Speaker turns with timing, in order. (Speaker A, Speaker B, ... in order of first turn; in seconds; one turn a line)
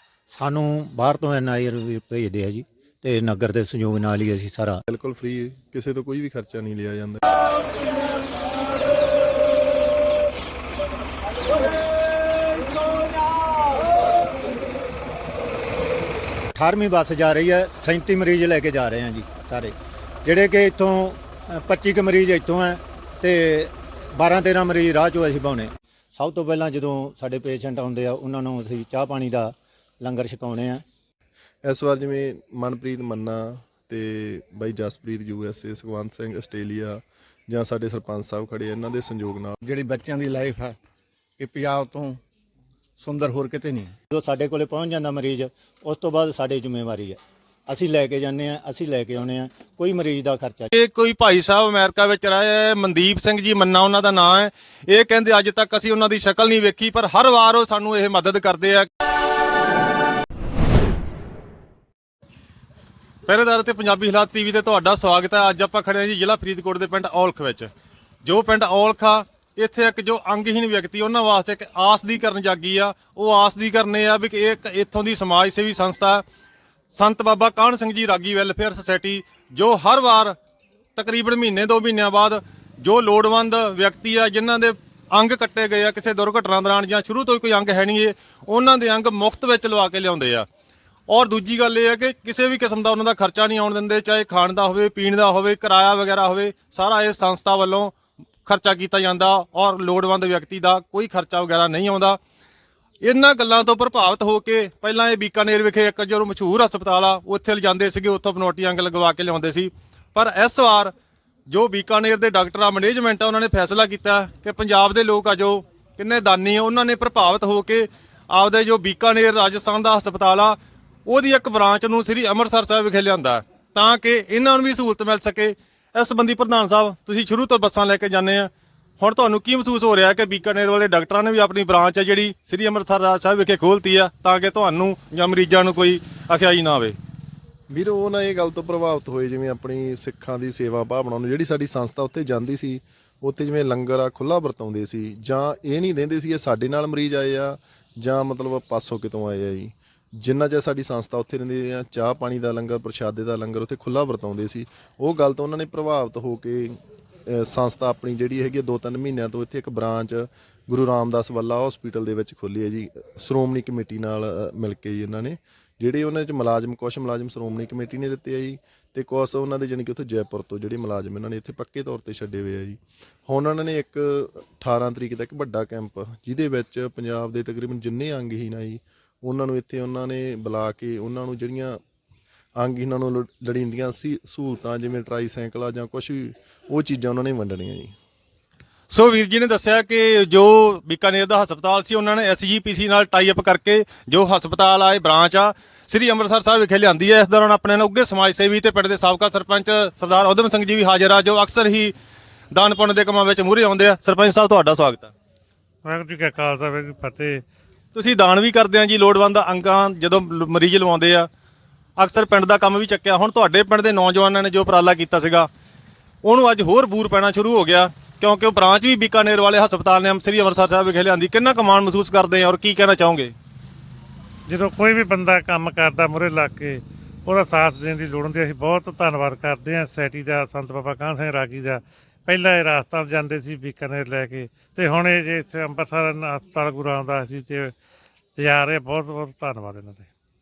Speaker A: 0.3-4.8
Speaker B: 4.9-7.2
Speaker A: 16.6-30.8
Speaker B: 31.6-39.6
Speaker C: 39.7-40.7
Speaker C: 41.4-42.2
Speaker C: 43.0-43.9
Speaker A: 44.1-50.7
Speaker D: 50.7-58.9
Speaker D: 63.3-67.7
Speaker D: 68.2-76.2
Speaker D: 76.9-80.4
Speaker D: 81.0-90.5
Speaker D: 91.1-102.2
Speaker D: 103.0-110.9
Speaker D: 111.5-137.0
Speaker B: 137.7-181.8
Speaker B: 182.6-187.9
Speaker D: 188.9-201.9
Speaker D: 202.5-205.1
Speaker E: 205.8-207.4
Speaker D: 207.9-211.3
Speaker D: 212.0-215.5
Speaker D: 216.2-223.3
Speaker E: 224.5-237.7
Speaker E: 238.4-240.1